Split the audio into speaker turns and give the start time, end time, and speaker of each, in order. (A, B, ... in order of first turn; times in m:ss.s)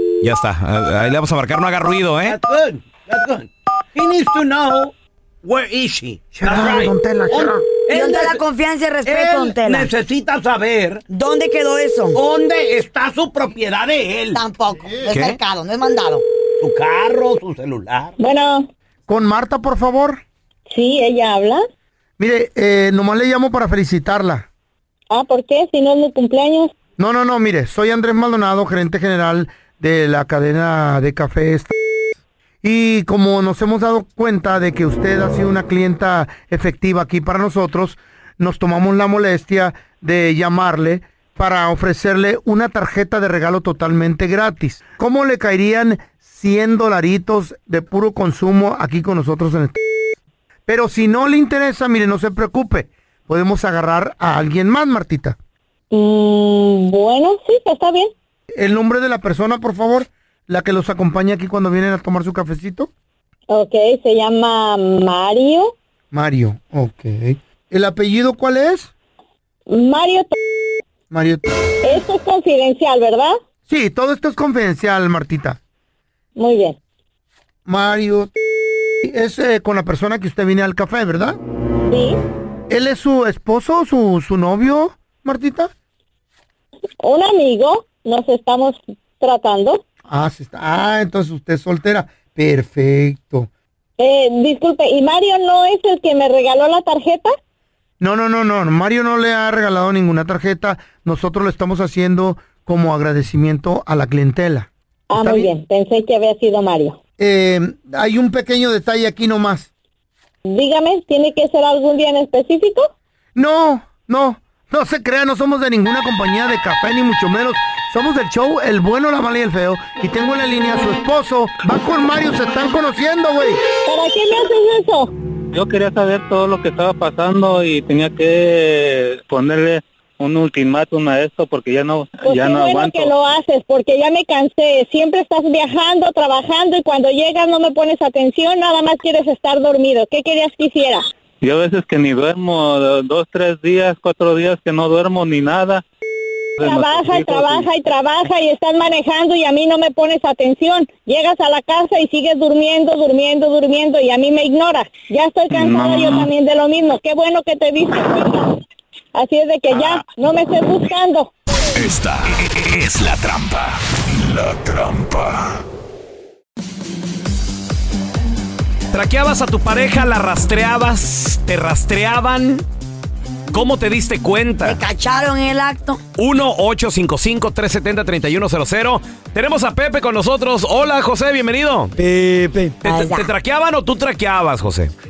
0:00.2-0:02.4 A
0:02.3-0:04.9 B
0:05.4-0:08.4 B
0:06.3-0:07.6 C
0:07.9-0:09.9 D
0:09.1-0:11.0 B
0:11.1-0:12.2 D
0:12.1-0:14.4 B
0:14.3-0:16.2 D
0:15.1-0:15.4 A
0:16.6-0:18.1 B
0:18.2-0:18.7 E
0:19.1-0:20.2 C
0:20.7-0:21.6 E
0:22.2-0:24.5 C
0:25.1-0:26.7 E
0:27.0-0:31.7 C
0:32.6-0:49.8 C
0:50.7-0:55.4 C
0:55.9-0:58.1 E
0:58.5-1:02.9 C
1:03.5-1:05.7 E
1:06.1-1:08.9 C
1:09.7-1:10.4 E
1:11.1-1:11.5 C
1:11.8-1:13.4 E
1:13.7-1:15.6 C
1:16.4-1:16.8 E
1:17.7-1:18.3 C
1:19.0-1:21.4 C
1:21.9-1:22.2 E
1:22.7-1:25.7 C
1:27.0-1:29.8 E
1:30.1-1:33.5 C
1:34.0-1:37.4 E
1:38.0-1:45.5 C
1:45.1-1:47.0 E
1:47.2-1:49.7 C
1:50.5-1:52.9 E
1:53.4-2:03.6 C
2:03.9-2:05.1 E
2:05.5-2:13.1 F
2:12.2-2:21.0 E
2:21.4-2:25.8 F
2:26.6-2:27.7 F
2:26.6-2:38.6 E
2:35.5-2:36.3 F
2:39.2-2:41.3 E
2:41.8-2:45.4 G
2:48.9-2:52.6 A
2:53.5-2:54.8 A
2:54.6-2:56.0 D
2:56.2-3:02.0 A
3:02.6-3:04.9 A
3:02.8-3:03.3 D